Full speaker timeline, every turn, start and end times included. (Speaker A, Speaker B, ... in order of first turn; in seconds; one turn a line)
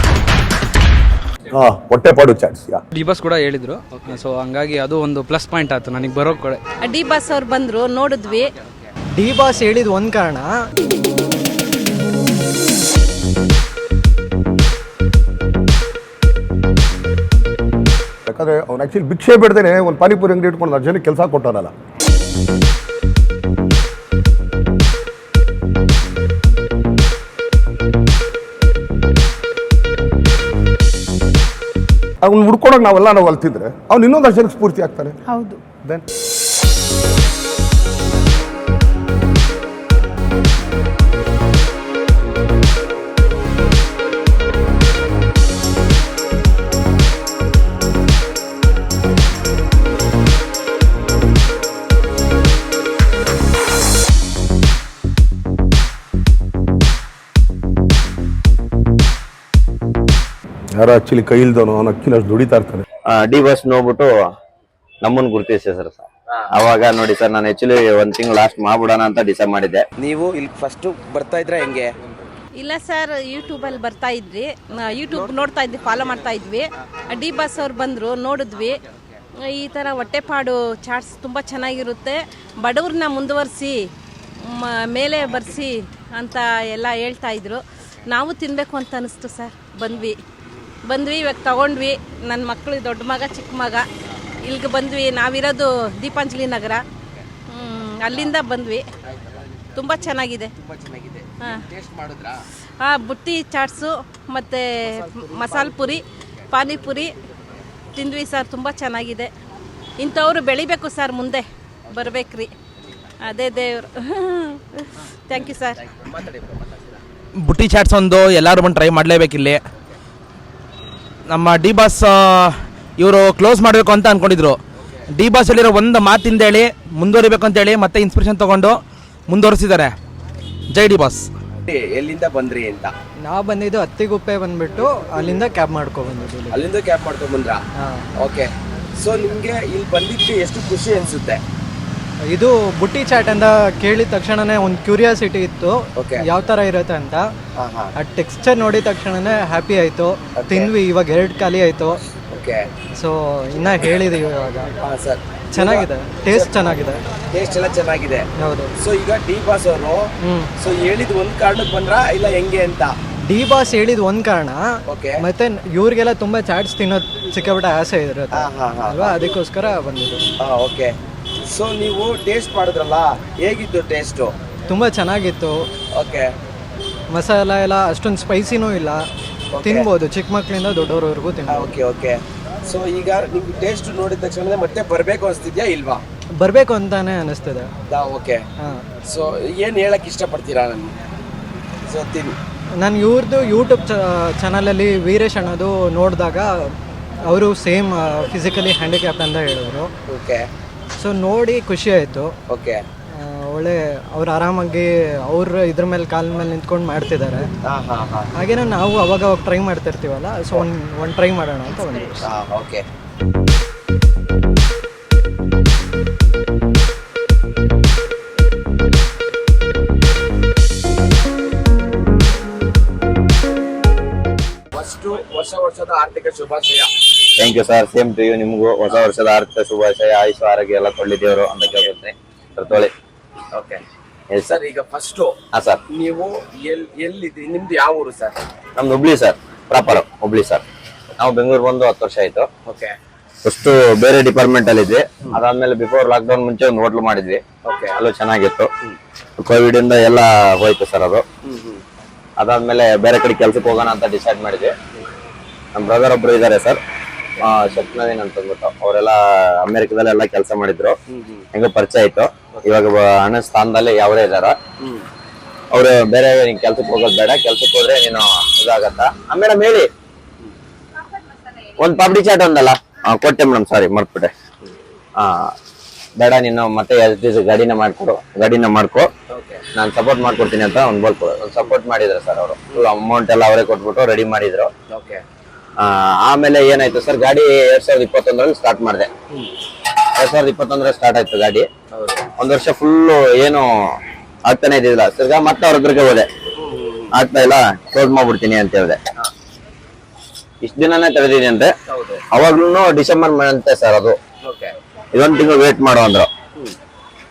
Speaker A: 1.5-2.8
Speaker B: 2.9-6.6
Speaker C: 6.8-8.5
Speaker D: 9.2-10.5
Speaker A: 18.3-21.7
Speaker A: 32.2-35.2
Speaker A: 35.8-36.0
Speaker A: 60.8-62.9
Speaker E: 63.1-64.1
Speaker E: 65.0-69.9
Speaker F: 70.0-71.9
Speaker C: 72.6-78.8
Speaker C: 79.5-83.8
Speaker C: 84.4-90.2
Speaker C: 90.9-93.8
Speaker C: 94.4-96.8
Speaker C: 97.5-98.8
Speaker F: 99.0-99.9
Speaker C: 99.8-100.5
Speaker F: 100.6-102.4
Speaker C: 102.8-107.2
Speaker F: 104.9-106.9
Speaker C: 108.0-109.3
Speaker C: 110.0-112.5
Speaker F: 111.9-112.2
Speaker F: 112.8-113.1
Speaker C: 113.3-115.8
Speaker F: 115.4-117.0
Speaker G: 117.4-119.6
Speaker G: 121.3-130.0
Speaker G: 130.7-131.3
Speaker F: 131.7-132.9
Speaker D: 133.2-136.6
Speaker F: 136.5-137.6
Speaker F: 138.2-141.4
Speaker D: 142.3-147.2
Speaker F: 146.0-146.2
Speaker F: 147.6-147.9
Speaker D: 148.0-152.0
Speaker F: 150.4-150.7
Speaker F: 152.3-152.7
Speaker D: 153.0-154.7
Speaker F: 154.8-158.3
Speaker D: 155.5-157.0
Speaker D: 158.4-158.7
Speaker F: 158.8-163.0
Speaker D: 160.2-160.5
Speaker D: 163.3-164.6
Speaker F: 164.9-165.2
Speaker D: 165.2-170.2
Speaker F: 168.3-169.1
Speaker F: 170.4-170.9
Speaker F: 171.4-174.3
Speaker D: 174.7-175.7
Speaker F: 175.9-176.3
Speaker D: 177.1-179.0
Speaker F: 179.5-179.9
Speaker D: 179.6-181.7
Speaker F: 181.5-186.0
Speaker D: 186.4-187.7
Speaker F: 187.9-188.4
Speaker F: 189.1-191.0
Speaker F: 191.8-192.4
Speaker D: 192.8-196.7
Speaker D: 197.3-199.9
Speaker F: 200.1-200.5
Speaker D: 201.0-202.3
Speaker F: 202.5-202.8
Speaker D: 203.2-207.5
Speaker F: 207.7-208.3
Speaker D: 208.4-212.3
Speaker F: 212.2-212.8
Speaker F: 224.7-227.1
Speaker E: 227.4-232.9
Speaker F: 233.5-233.8
Speaker F: 234.5-235.4
Speaker E: 235.5-235.8
Speaker F: 235.9-238.4
Speaker E: 238.8-240.6
Speaker E: 241.2-242.5
Speaker F: 242.7-242.9
Speaker E: 243.4-247.4
Speaker F: 247.7-248.0
Speaker E: 247.9-248.7
Speaker E: 249.4-251.2
Speaker F: 251.4-251.8
Speaker E: 252.4-254.7
Speaker E: 255.7-256.8
Speaker E: 257.4-261.0
Speaker F: 261.1-261.5
Speaker E: 261.5-264.6
Speaker F: 264.8-265.1
Speaker E: 265.7-269.9
Speaker E: 271.8-274.3
Speaker E: 275.2-275.5
Speaker E: 276.2-279.1
Speaker F: 279.3-279.6
Speaker E: 279.7-284.7
Speaker F: 284.9-285.2
Speaker E: 285.8-289.1
Speaker E: 290.2-291.7
Speaker F: 291.9-292.3
Speaker E: 292.4-293.9
Speaker E: 294.5-296.3
Speaker F: 296.6-297.1
Speaker E: 297.1-299.0
Speaker E: 300.6-301.7
Speaker F: 301.9-302.2
Speaker E: 302.3-304.2
Speaker F: 304.4-304.8
Speaker E: 305.1-306.3